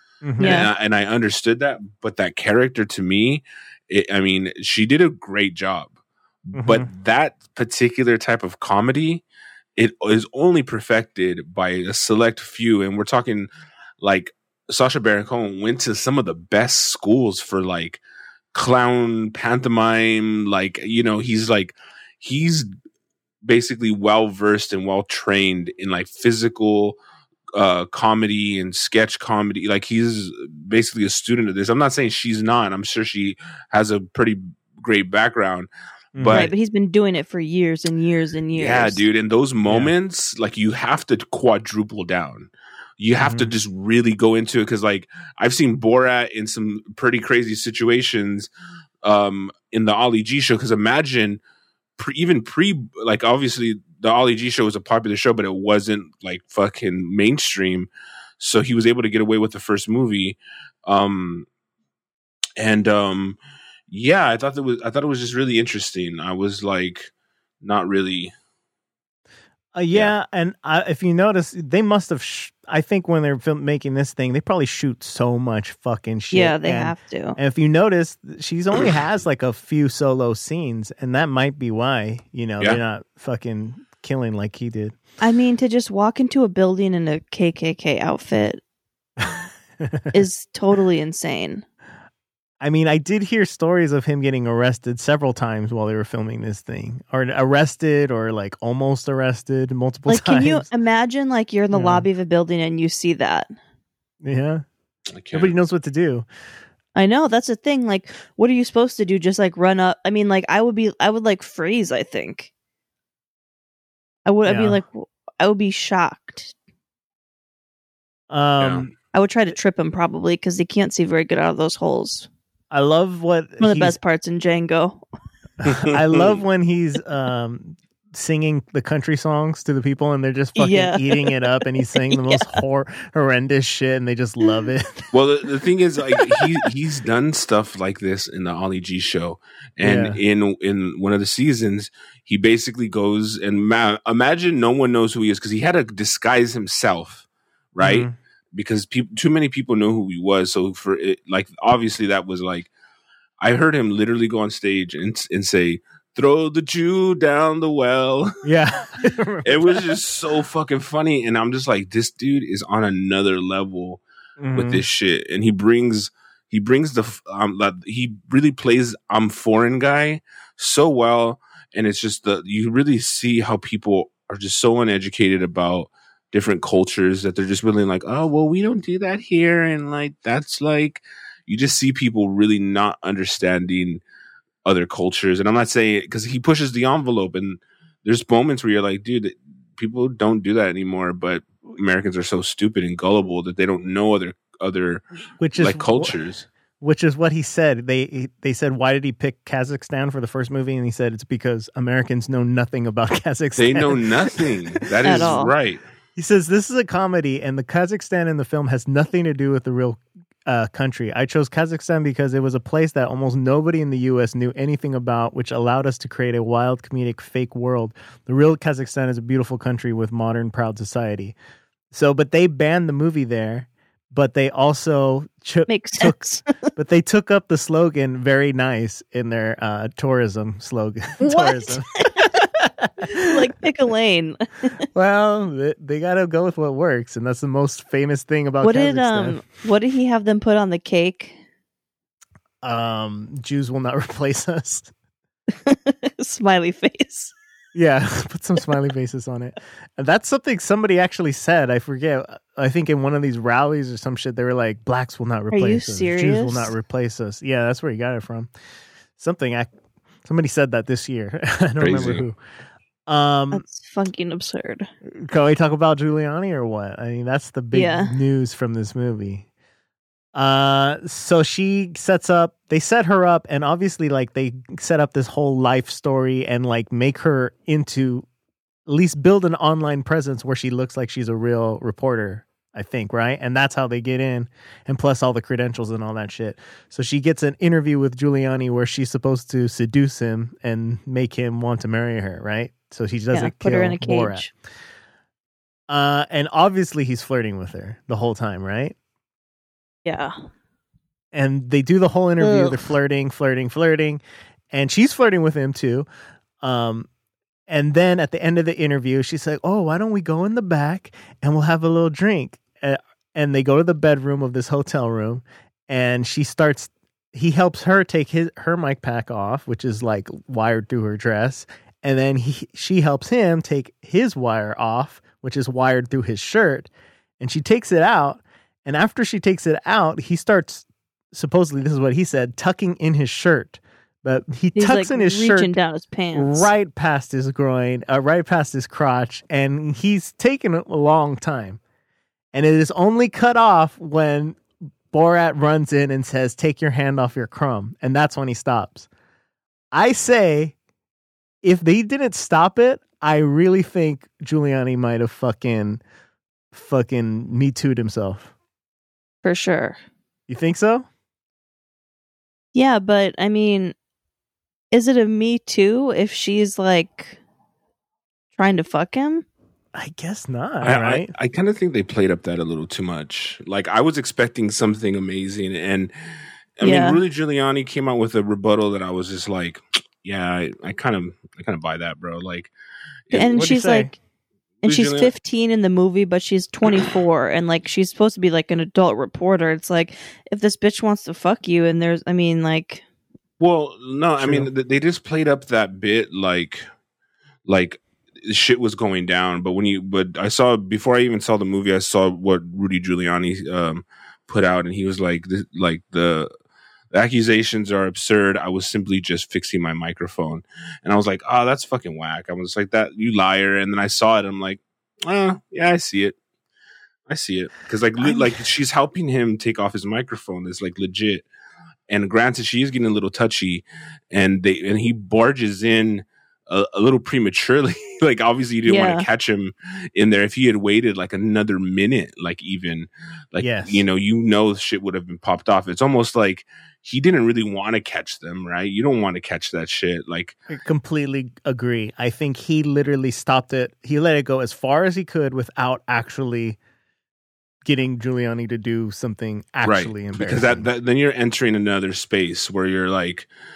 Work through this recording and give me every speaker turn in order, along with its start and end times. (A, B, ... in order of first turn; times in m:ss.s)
0:00.2-0:00.7 A
0:00.4-0:00.7 B
0:00.4-0:05.9 C
0:06.5-0:09.2 C
0:06.5-0:06.9 A
0:09.8-0:13.5 C
0:14.0-0:18.0 C
0:18.5-0:22.7 C
0:23.4-0:27.0 C
0:27.5-0:36.5 C
0:36.2-0:36.5 A
0:36.3-0:39.0 B
0:38.5-0:48.5 C
0:39.7-0:39.9 A
0:43.2-0:43.5 A
0:49.0-0:51.4 C
0:52.0-1:01.5 C
1:02.6-1:03.4 C
1:03.9-1:07.1 C
1:07.6-1:08.3 C
1:09.8-1:25.0 A
1:16.3-1:17.4 B
1:25.2-1:28.6 B
1:29.2-1:30.1 A
1:30.1-1:31.6 B
1:32.6-1:40.7 A
1:40.1-1:43.5 B
1:41.7-1:42.1 A
1:44.2-1:44.6 A
1:45.1-1:45.5 C
1:45.3-1:46.3 A
1:47.0-1:52.5 B
1:54.3-1:56.5 B
1:54.4-1:54.8 A
1:58.3-1:58.9 A
1:58.6-1:58.9 C
1:59.1-2:02.3 B
2:02.7-2:04.0 A
2:03.6-2:05.0 B
2:05.7-2:06.4 C
2:05.9-2:15.0 A
2:10.6-2:12.5 B
2:15.1-2:32.7 C
2:19.8-2:20.2 A
2:27.8-2:28.1 A
2:33.4-2:38.4 C
2:38.4-2:39.9 A
2:39.4-2:44.0 C
2:44.4-2:44.8 A
2:44.5-3:04.0 C
3:04.6-3:15.0 C
3:15.4-3:16.2 A
3:15.6-3:16.5 C
3:16.8-3:25.4 A
3:23.6-3:25.8 C
3:25.0-3:25.5 B
3:26.2-3:41.4 A
3:41.9-3:46.2 A
3:45.7-3:46.4 B
3:46.8-3:53.4 A
3:51.2-3:52.3 B
3:53.1-3:54.8 B
3:54.9-3:59.4 A
3:58.6-4:01.4 B
4:02.6-4:04.9 A
4:05.5-4:07.3 B
4:07.8-4:18.5 A
4:15.5-4:16.7 B
4:19.2-4:19.7 A
4:20.2-4:22.4 A
4:21.8-4:22.2 C
4:23.1-4:23.6 A
4:23.5-4:24.9 B
4:25.1-4:29.5 A
4:27.7-4:28.2 B
4:30.3-4:38.3 A
4:38.9-4:54.5 A
4:53.3-4:54.5 B
4:55.9-4:59.0 A
5:00.0-5:00.4 B
5:01.3-5:06.1 A
5:02.4-5:02.9 B
5:06.6-5:07.1 A
5:07.7-5:35.8 A
5:34.8-5:36.7 B
5:36.4-5:41.8 A
5:42.5-5:44.6 A
5:45.1-5:49.1 A
5:49.9-5:50.8 A
5:51.6-5:56.0 A
5:56.7-5:58.5 A
5:59.4-6:00.0 B
6:00.5-6:01.1 A
6:02.7-6:04.0 B
6:04.9-6:07.4 B
6:08.6-6:09.4 B
6:09.9-6:11.3 A
6:10.8-6:16.1 C
6:16.8-6:22.7 C
6:16.8-6:17.2 B
6:23.3-6:23.6 C
6:23.3-6:24.2 B
6:23.3-6:24.1 A
6:24.8-6:25.3 C
6:24.8-6:33.0 B
6:33.6-6:36.8 C
6:34.4-6:34.7 A
6:37.7-6:46.5 C
6:47.1-6:56.4 C
6:57.3-7:01.5 C
6:58.2-6:58.6 A
7:02.1-7:20.6 C
7:08.9-7:09.3 B
7:13.6-7:14.0 A
7:20.7-7:26.8 A
7:27.8-7:30.9 A
7:29.8-7:33.5 C